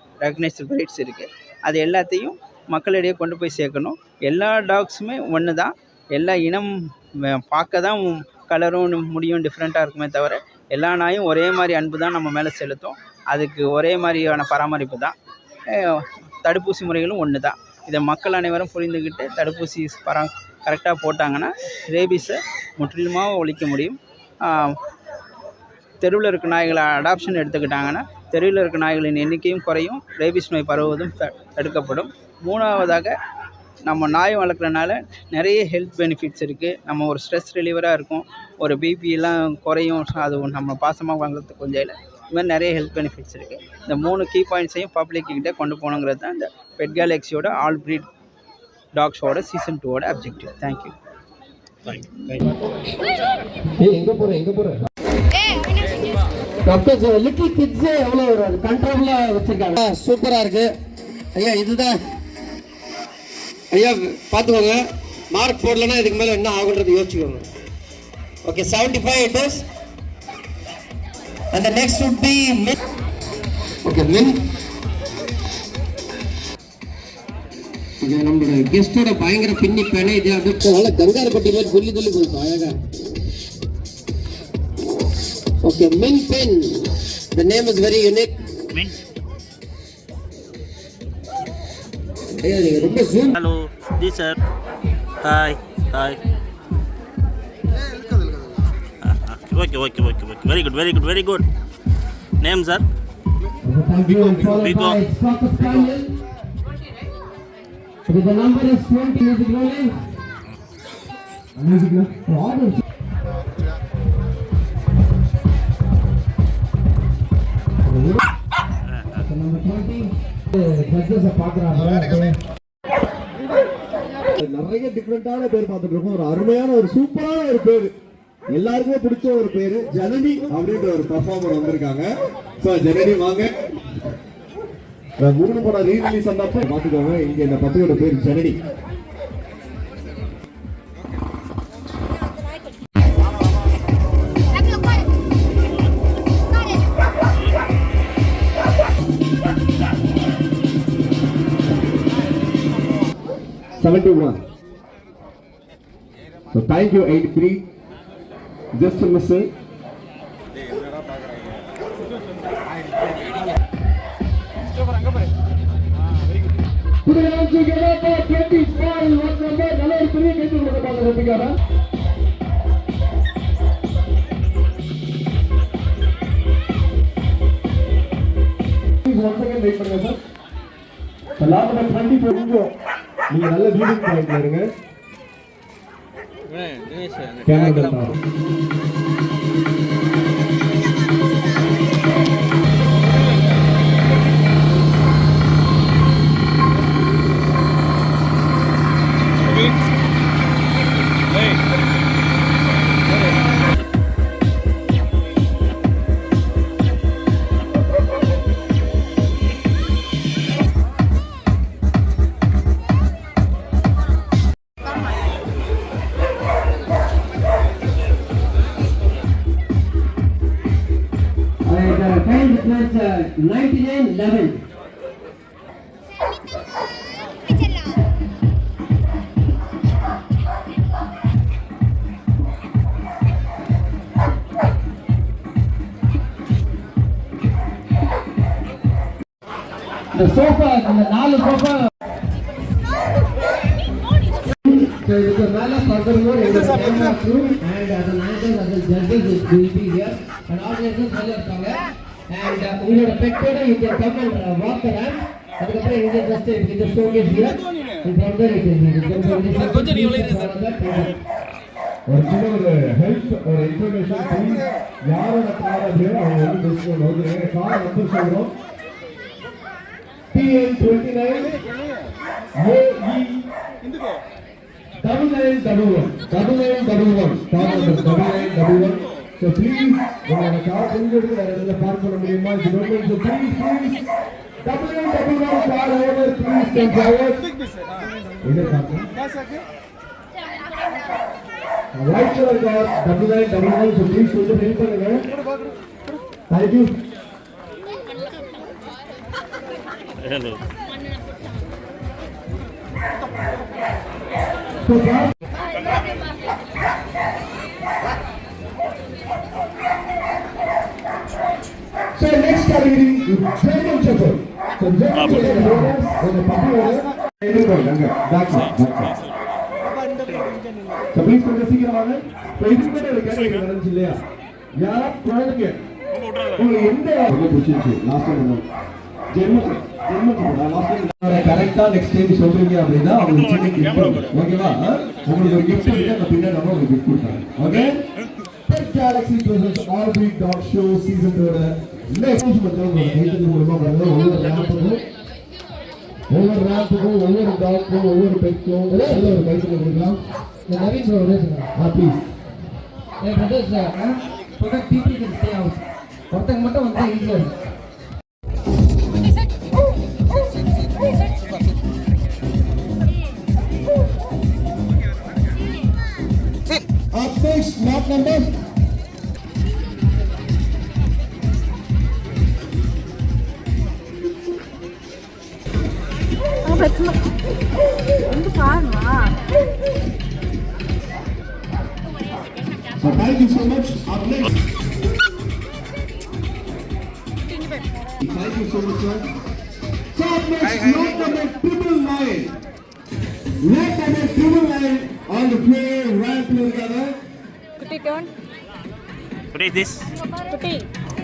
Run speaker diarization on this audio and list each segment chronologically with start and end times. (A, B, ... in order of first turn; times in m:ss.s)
0:00.2-0:06.7 A
0:07.2-0:15.2 A
0:15.7-0:24.8 A
0:26.0-0:33.1 A
0:33.9-0:48.1 A
0:49.0-0:51.0 A
0:51.9-0:52.2 B
0:53.8-0:54.8 C
0:56.6-1:00.7 D
1:01.4-1:02.0 D
1:03.7-1:07.5 D
1:08.4-1:09.6 D
1:11.5-1:12.8 D
1:13.8-1:14.4 D
1:18.0-1:22.8 D
1:25.6-1:28.4 D
1:28.7-1:29.0 B
1:32.4-1:33.3 D
1:33.3-1:34.4 B
1:35.2-1:36.2 B
1:39.0-1:41.5 B
1:42.4-1:42.9 B
1:43.6-1:46.1 D
1:44.1-1:45.0 B
1:48.1-1:50.0 D
1:51.6-1:52.2 C
1:52.1-1:52.8 D
1:57.8-1:58.2 D
1:59.2-2:02.4 D
2:04.3-2:07.9 C
2:08.5-2:12.1 C
2:12.6-2:13.5 C
2:15.2-2:18.6 C
2:33.8-2:34.4 C
2:36.5-2:37.6 C
2:38.8-2:39.5 C
2:47.1-2:51.5 C
2:59.0-3:00.2 C
3:01.4-3:02.7 C
3:03.3-3:04.7 C
3:06.5-3:07.4 B
3:07.4-3:08.2 C
3:41.6-3:44.6 D
4:00.1-4:01.9 D
4:04.7-4:21.2 D
4:22.1-4:28.5 C
4:30.3-4:31.5 C
4:32.6-4:33.5 C
4:35.0-4:44.0 C
4:44.6-4:47.4 C
4:48.4-4:49.1 C
4:52.0-4:55.2 C
4:56.5-4:56.9 C
5:00.2-5:00.6 B
5:04.9-5:05.3 C
5:12.2-5:19.1 C
5:15.2-5:15.4 B
5:15.3-5:15.9 D
5:21.1-5:24.2 C
5:24.8-5:25.8 C
5:26.5-5:28.6 C
5:29.3-5:38.0 C
5:38.7-5:45.0 C
5:46.3-5:50.2 C
5:48.9-5:49.4 D
5:50.7-5:51.7 D
5:51.8-5:52.2 C
5:53.2-5:57.5 D
6:07.1-6:08.5 C
6:16.7-6:17.2 E
6:18.3-6:19.4 E
6:23.0-6:24.5 C
6:28.2-6:29.3 C
6:30.1-6:32.6 C
6:33.6-6:37.2 C
6:37.8-6:38.3 E
6:39.5-6:40.1 B
6:40.4-6:40.9 E